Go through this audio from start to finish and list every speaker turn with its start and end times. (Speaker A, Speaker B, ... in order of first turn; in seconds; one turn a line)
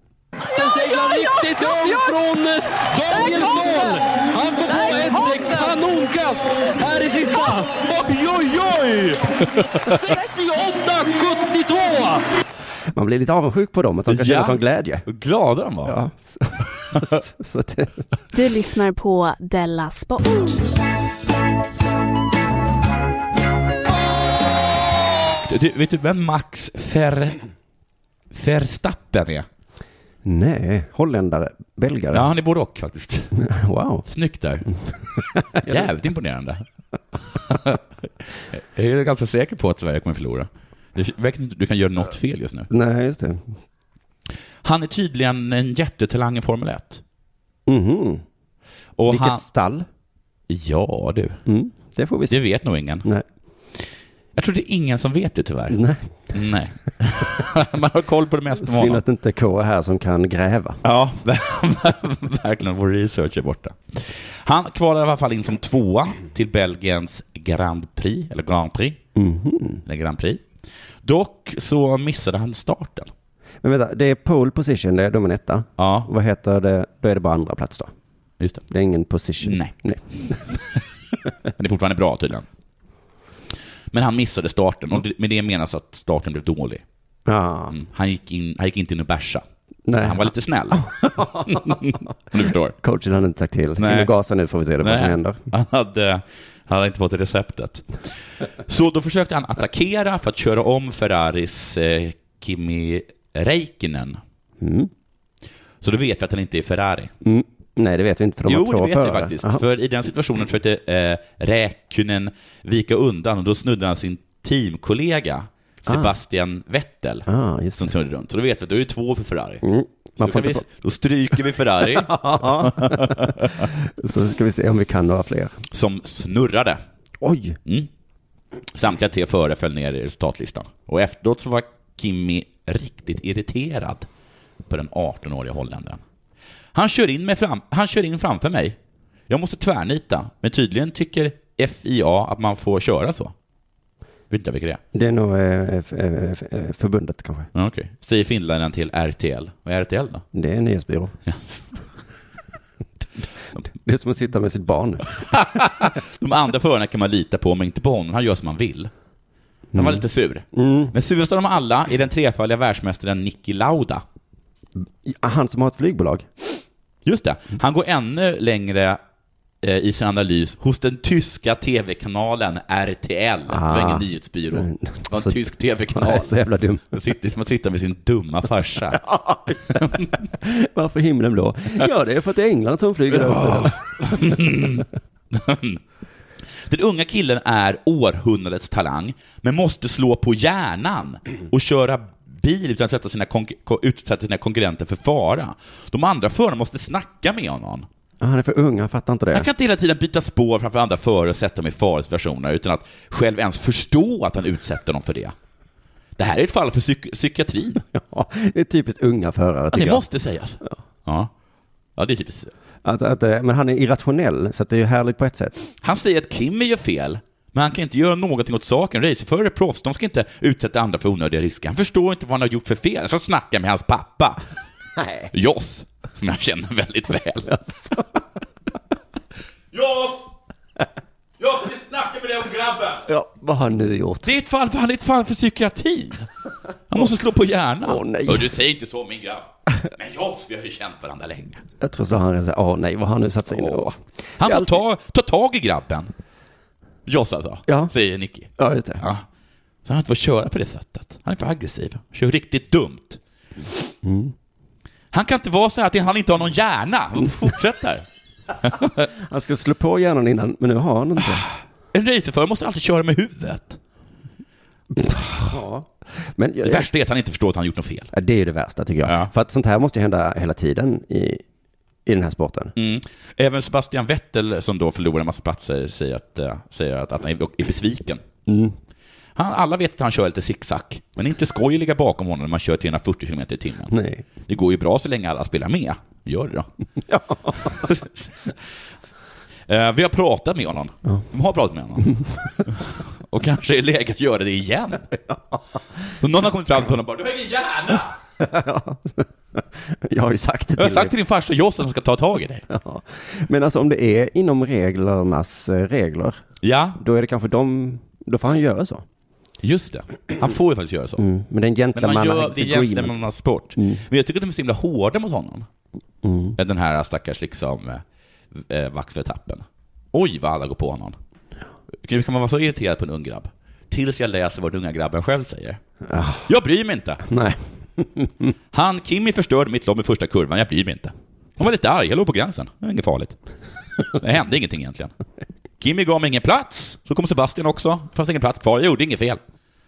Speaker A: 0.5-12.2
Speaker B: 12.9-15.0
Speaker C: 14.1-16.0
Speaker B: 15.8-18.0
Speaker D: 18.3-20.6
Speaker C: 25.5-27.4
Speaker C: 28.3-29.5
Speaker B: 30.2-32.3
Speaker C: 32.1-33.4
Speaker B: 33.4-34.0
Speaker C: 34.1-34.7
Speaker B: 35.4-35.9
Speaker C: 35.6-36.6
Speaker C: 37.5-37.8
Speaker C: 38.5-42.7
Speaker B: 42.7-43.5
Speaker C: 44.6-47.0
Speaker B: 47.7-48.2
Speaker C: 49.0-49.4
Speaker B: 49.1-49.9
Speaker C: 50.5-51.4
Speaker B: 51.5-52.4
Speaker C: 52.3-53.1
Speaker C: 54.4-55.8
Speaker B: 55.7-56.0
Speaker C: 56.3-59.0
Speaker B: 58.6-60.8
Speaker C: 60.8-69.0
Speaker B: 69.2-69.8
Speaker C: 69.9-70.4
Speaker C: 71.0-73.1
Speaker B: 73.6-77.9
Speaker C: 75.8-76.1
Speaker B: 78.7-80.3
Speaker C: 79.4-79.7
Speaker C: 81.6-82.5
Speaker C: 83.9-86.8
Speaker B: 87.3-87.8
Speaker C: 87.7-89.4
Speaker B: 89.9-91.8
Speaker C: 90.0-92.8
Speaker B: 92.8-95.4
Speaker C: 93.8-94.1
Speaker C: 94.8-98.0
Speaker C: 98.7-104.2
Speaker B: 104.6-104.9
Speaker C: 105.8-107.1
Speaker B: 107.2-109.6
Speaker C: 108.5-119.6
Speaker B: 117.3-117.9
Speaker B: 119.6-120.6
Speaker C: 120.2-123.6
Speaker B: 121.9-125.6
Speaker C: 125.7-126.8
Speaker B: 127.2-127.6
Speaker C: 128.7-134.1
Speaker C: 134.7-136.0
Speaker C: 136.8-138.8
Speaker C: 139.3-143.3
Speaker C: 144.3-144.8
Speaker B: 144.9-147.5
Speaker C: 147.6-150.2
Speaker B: 150.3-151.1
Speaker C: 151.3-151.8
Speaker B: 153.7-155.2
Speaker C: 155.3-158.9
Speaker B: 159.7-160.9
Speaker C: 159.8-164.0
Speaker B: 165.0-166.3
Speaker C: 167.1-169.0
Speaker C: 169.6-176.4
Speaker B: 173.5-175.3
Speaker B: 175.9-176.8
Speaker C: 176.9-179.0
Speaker B: 178.9-179.9
Speaker C: 179.8-180.1
Speaker B: 180.4-184.3
Speaker C: 183.2-185.8
Speaker C: 186.7-197.9
Speaker B: 198.2-199.5
Speaker C: 199.3-205.3
Speaker C: 206.2-207.8
Speaker B: 207.9-210.0
Speaker C: 209.7-211.3
Speaker C: 212.0-212.5
Speaker B: 212.8-215.6
Speaker C: 215.8-224.4
Speaker B: 225.0-225.3
Speaker C: 225.3-227.6
Speaker B: 227.5-228.0
Speaker C: 229.7-230.3
Speaker C: 231.4-233.1
Speaker B: 233.1-234.3
Speaker C: 234.2-236.3
Speaker C: 236.9-241.6
Speaker B: 237.8-238.5
Speaker B: 241.8-244.8
Speaker C: 243.5-243.9
Speaker C: 244.4-246.1
Speaker C: 247.1-249.2
Speaker B: 247.7-247.9
Speaker B: 248.6-249.0
Speaker C: 249.9-253.2
Speaker B: 254.0-254.3
Speaker C: 255.1-258.1
Speaker C: 258.6-259.1
Speaker B: 259.2-261.5
Speaker C: 261.9-263.8
Speaker B: 264.9-266.9
Speaker C: 266.6-268.1
Speaker B: 268.1-271.4
Speaker C: 269.1-269.3
Speaker B: 272.1-272.7
Speaker C: 272.8-278.2
Speaker B: 278.5-278.8
Speaker C: 279.4-283.9
Speaker B: 283.9-284.2
Speaker C: 284.5-286.7
Speaker B: 287.1-287.9
Speaker C: 287.8-288.5
Speaker C: 289.7-295.1
Speaker C: 296.2-298.1
Speaker B: 298.4-301.1
Speaker C: 300.8-302.6
Speaker B: 302.7-306.4
Speaker C: 306.6-307.0
Speaker B: 307.0-309.0
Speaker C: 309.6-311.2
Speaker B: 311.2-313.2
Speaker C: 311.9-315.7
Speaker B: 316.2-316.6
Speaker C: 316.6-318.0
Speaker C: 318.5-321.2
Speaker C: 322.0-325.8
Speaker B: 326.1-326.5
Speaker C: 326.5-327.2
Speaker B: 327.3-328.5
Speaker C: 328.7-333.4
Speaker C: 334.1-335.1
Speaker C: 335.8-339.4